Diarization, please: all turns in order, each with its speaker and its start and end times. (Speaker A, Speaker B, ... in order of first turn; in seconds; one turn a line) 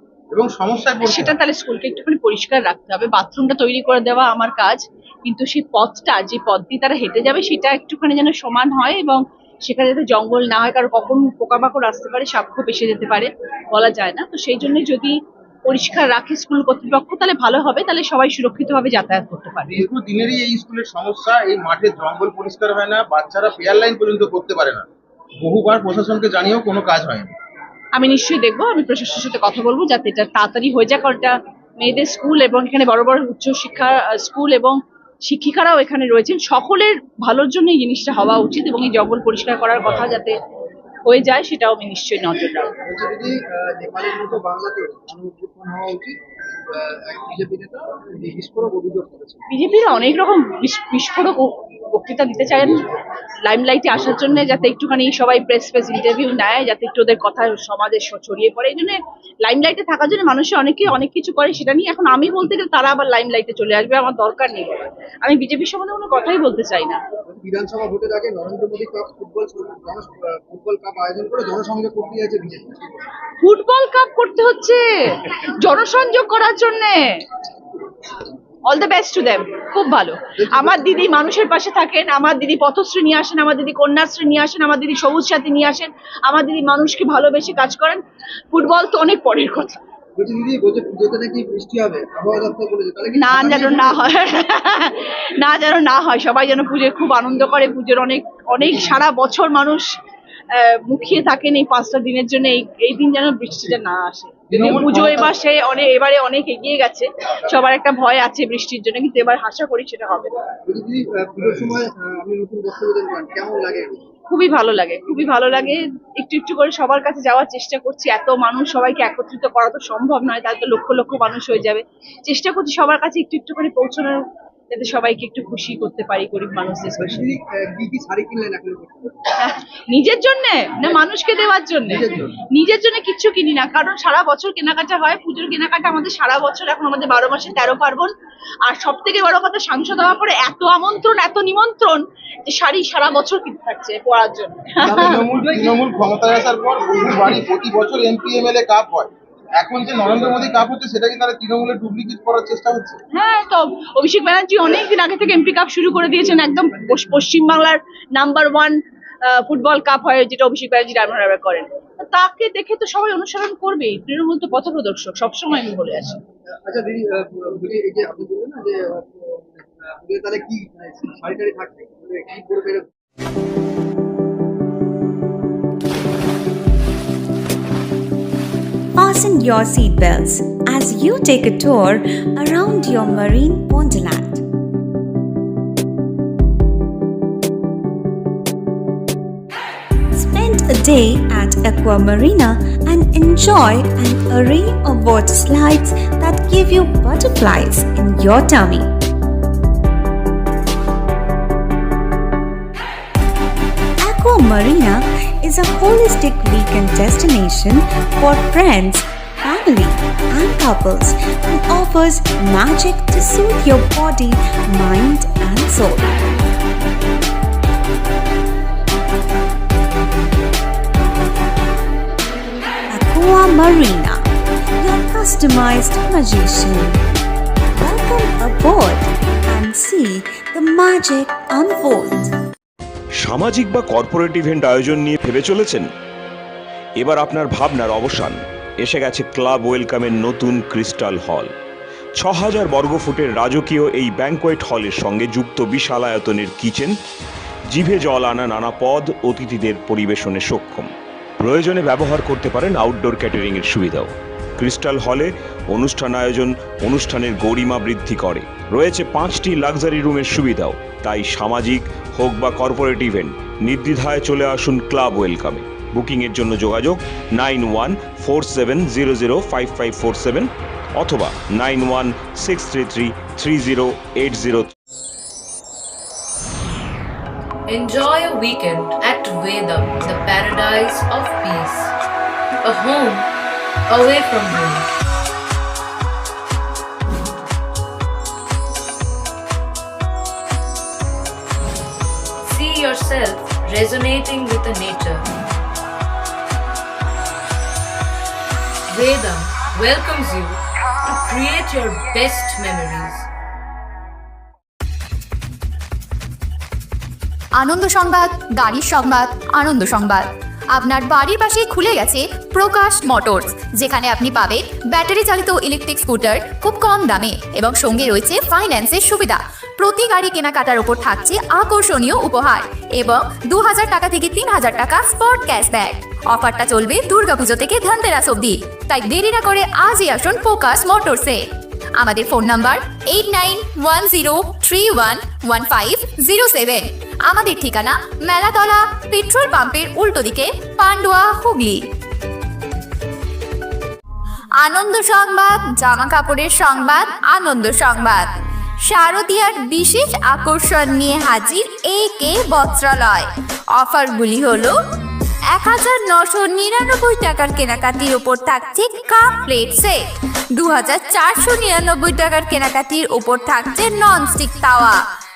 Speaker A: 0.3-1.4
Speaker B: 1.0-19.8
Speaker A: 19.7-24.9
Speaker A: 25.4-27.3
Speaker B: 27.9-40.4
Speaker B: 41.1-42.8
Speaker C: 42.9-46.2
Speaker C: 46.7-49.4
Speaker B: 49.5-67.0
Speaker C: 67.3-73.0
Speaker B: 73.4-77.2
Speaker B: 78.7-88.0
Speaker C: 80.4-81.2
Speaker B: 88.5-89.8
Speaker C: 90.2-94.0
Speaker B: 93.1-99.9
Speaker B: 100.6-110.3
Speaker A: 104.7-105.2
Speaker C: 110.7-114.0
Speaker B: 114.3-127.3
Speaker C: 127.0-129.2
Speaker B: 129.3-138.1
Speaker C: 131.9-132.4
Speaker B: 138.7-145.2
Speaker C: 144.9-145.8
Speaker A: 144.9-153.0
Speaker B: 153.1-166.2
Speaker C: 166.6-172.9
Speaker D: 178.9-184.4
Speaker D: 190.1-198.9
Speaker D: 204.0-216.2
Speaker D: 222.9-224.2
Speaker D: 224.8-227.0
Speaker D: 227.8-232.3
Speaker E: 233.2-235.9
Speaker E: 237.0-241.5
Speaker E: 242.2-246.9
Speaker E: 247.7-274.7
Speaker F: 277.7-281.9
Speaker F: 282.6-283.3
Speaker F: 283.9-284.9
Speaker F: 292.5-295.2
Speaker F: 298.9-300.6
Speaker F: 301.1-303.2
Speaker G: 307.6-331.4
Speaker G: 332.0-341.8
Speaker G: 344.6-348.3
Speaker G: 348.9-354.8
Speaker G: 355.5-360.0
Speaker G: 360.6-365.0